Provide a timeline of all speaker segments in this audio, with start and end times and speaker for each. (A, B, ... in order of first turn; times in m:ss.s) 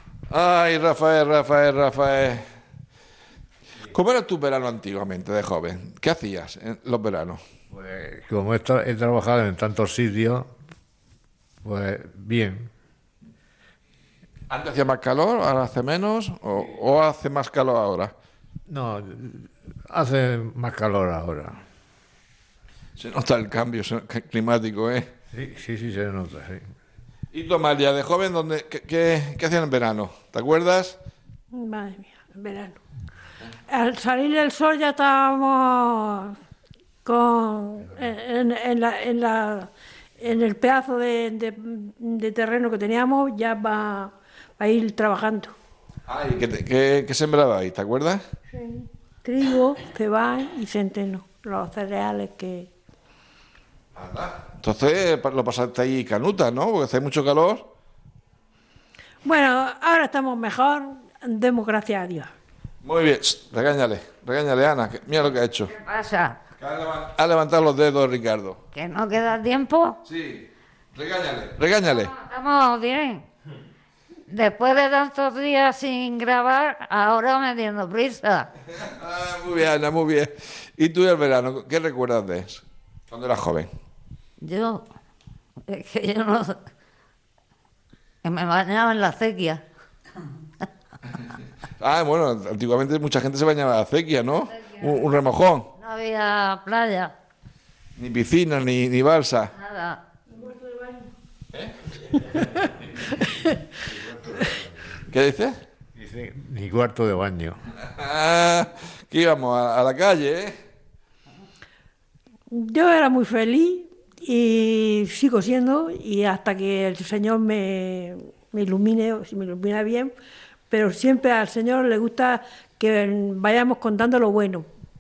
0:00.3-0:02.4 A
0:03.9-0:07.4 A
0:07.7-0:10.5 B
0:11.6-0:12.7 B
0:14.5-0:18.1 A
0:18.7-0:21.6 B
0:23.0-0:25.1 A
0:25.3-0:26.6 B
0:27.3-0:31.0 A
0:31.5-0:32.8 C
0:33.7-0:36.3 C
0:37.0-0:45.5 C
0:46.1-0:48.2 A
0:48.5-0:52.7 C
0:54.0-0:57.7 A
0:59.2-1:02.3 C
1:02.8-1:05.7 A
1:05.7-1:06.4 D
1:06.6-1:08.6 A
1:08.7-1:10.0 D
1:10.0-1:12.1 A
1:11.9-1:13.2 D
1:14.3-1:18.5 D
1:18.7-1:23.7 A
1:24.4-1:24.8 D
1:25.7-1:26.6 D
1:28.2-1:29.6 D
1:31.8-1:35.7 A
1:35.8-1:37.1 D
1:38.0-1:39.5 A
1:39.6-1:40.0 D
1:40.3-1:41.1 C
1:45.1-1:45.5 A
1:45.9-1:47.6 B
1:48.0-1:50.5 A
1:52.5-2:00.1 C
2:00.7-2:04.6 C